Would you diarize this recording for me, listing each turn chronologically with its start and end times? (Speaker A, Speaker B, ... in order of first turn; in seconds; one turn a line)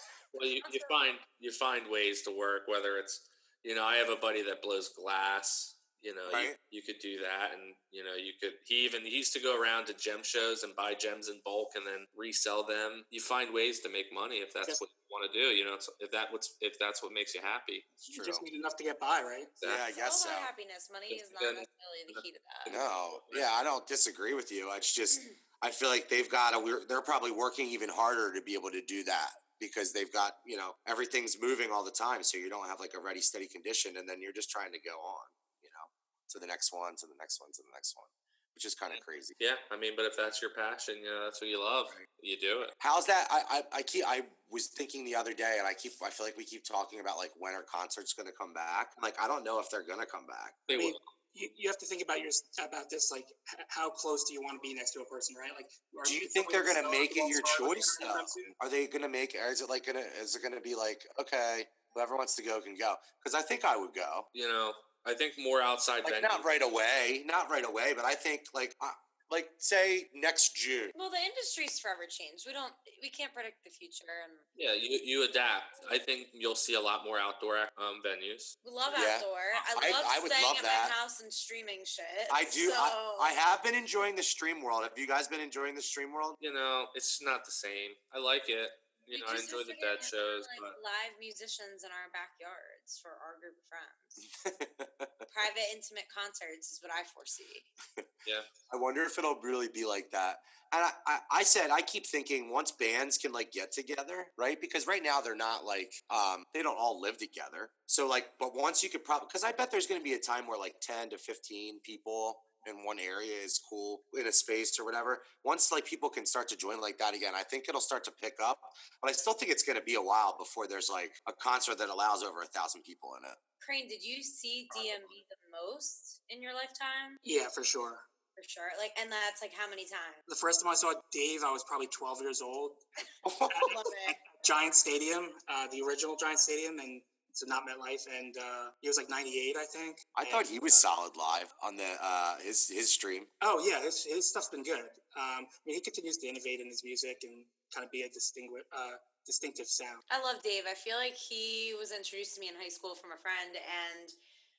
Speaker A: 0.3-17.9
Speaker B: 0.6-0.9
Speaker C: 6.3-6.6
Speaker C: 18.1-18.4
Speaker D: 18.1-19.5
Speaker C: 19.6-20.5
Speaker B: 19.9-22.8
Speaker A: 21.1-23.5
Speaker C: 22.7-39.4
Speaker A: 38.9-42.8
Speaker C: 42.8-50.6
Speaker A: 50.7-51.0
Speaker D: 50.7-58.5
Speaker C: 56.0-64.3
Speaker A: 64.3-66.5
Speaker C: 66.0-70.9
Speaker B: 71.0-74.5
Speaker A: 74.5-78.6
Speaker B: 78.6-83.3
Speaker C: 78.9-81.0
Speaker C: 82.3-86.4
Speaker A: 86.4-90.8
Speaker B: 89.1-94.2
Speaker C: 94.3-95.3
Speaker B: 95.3-97.7
Speaker C: 98.7-123.4
Speaker B: 123.6-127.2
Speaker D: 127.2-128.1
Speaker B: 128.4-130.2
Speaker D: 130.3-132.9
Speaker C: 133.2-133.7
Speaker D: 133.5-140.8
Speaker B: 133.6-134.2
Speaker C: 140.2-143.3
Speaker D: 143.4-150.0
Speaker B: 150.1-154.2